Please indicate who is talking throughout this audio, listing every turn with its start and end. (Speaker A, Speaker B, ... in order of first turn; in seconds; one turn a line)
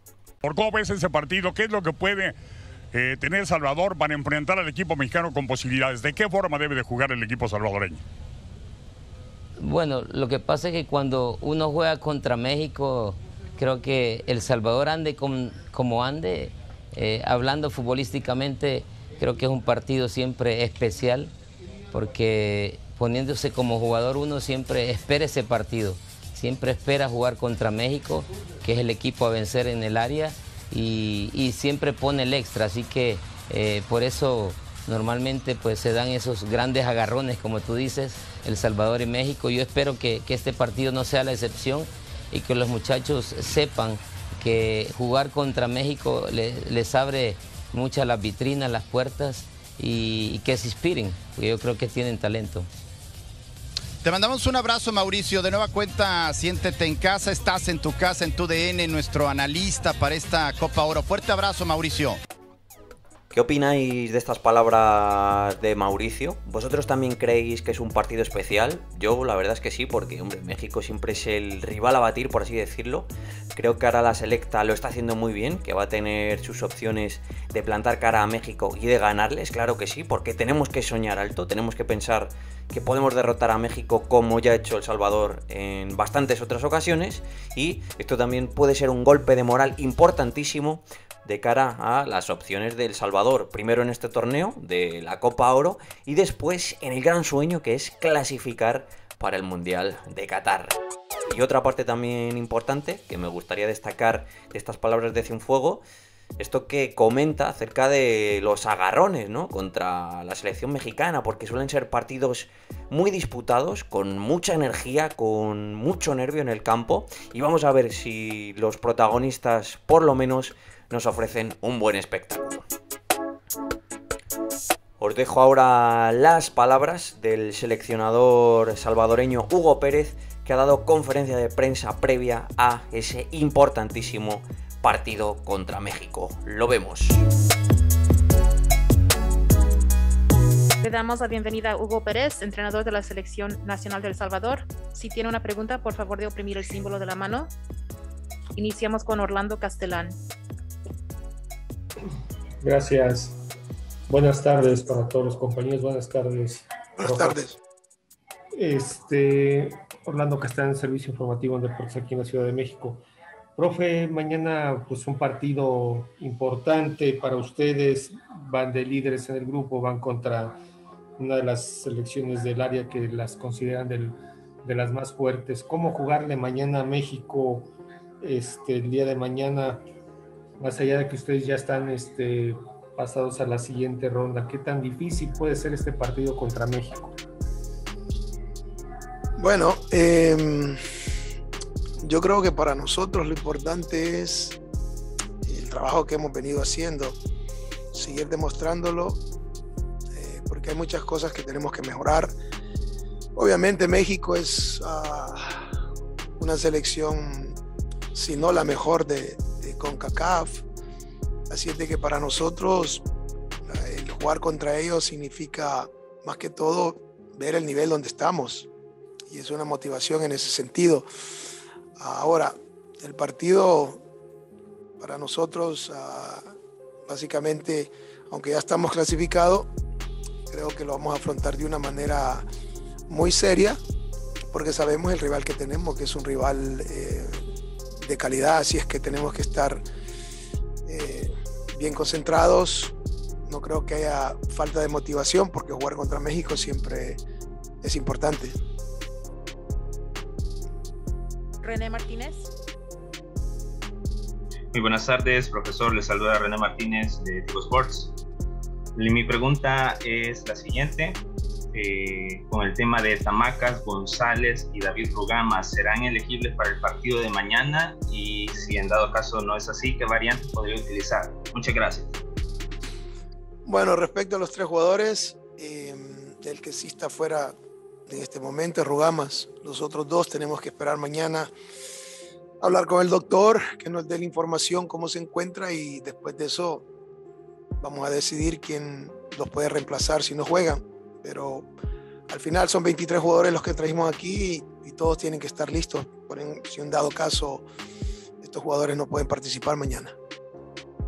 Speaker A: 0.4-2.3
Speaker A: 2.9-8.0
Speaker B: 9.6-21.3
Speaker B: 21.9-52.7
Speaker C: 54.0-62.2
Speaker D: 63.3-100.8
Speaker D: 101.3-105.8
Speaker D: 106.4-122.7
Speaker D: 125.0-137.2
Speaker E: 140.8-147.5
Speaker E: 148.6-150.2
Speaker F: 152.6-153.4
Speaker F: 154.1-157.4
Speaker G: 157.0-157.6
Speaker F: 158.6-163.0
Speaker F: 163.6-170.6
Speaker F: 171.2-179.8
Speaker F: 180.6-187.1
Speaker G: 189.4-190.8
Speaker G: 192.0-194.6
Speaker G: 195.5-197.2
Speaker G: 197.9-199.2
Speaker G: 200.2-202.4
Speaker G: 203.3-205.6
Speaker G: 206.4-207.6
Speaker G: 208.1-210.7
Speaker G: 211.5-213.1
Speaker G: 213.7-218.7
Speaker G: 219.3-221.1
Speaker G: 222.0-224.0
Speaker G: 225.0-226.5
Speaker G: 227.1-229.7
Speaker G: 230.5-232.5
Speaker G: 233.1-233.8
Speaker G: 234.5-237.4
Speaker G: 238.0-239.8
Speaker G: 240.9-242.9
Speaker G: 243.5-247.2
Speaker G: 247.8-248.6
Speaker E: 251.6-252.5
Speaker H: 254.7-258.1
Speaker H: 259.0-261.2
Speaker H: 261.7-272.1
Speaker G: 273.6-277.6
Speaker G: 278.1-281.5
Speaker G: 282.6-286.9
Speaker G: 287.8-291.7
Speaker G: 292.3-297.7
Speaker G: 298.4-300.1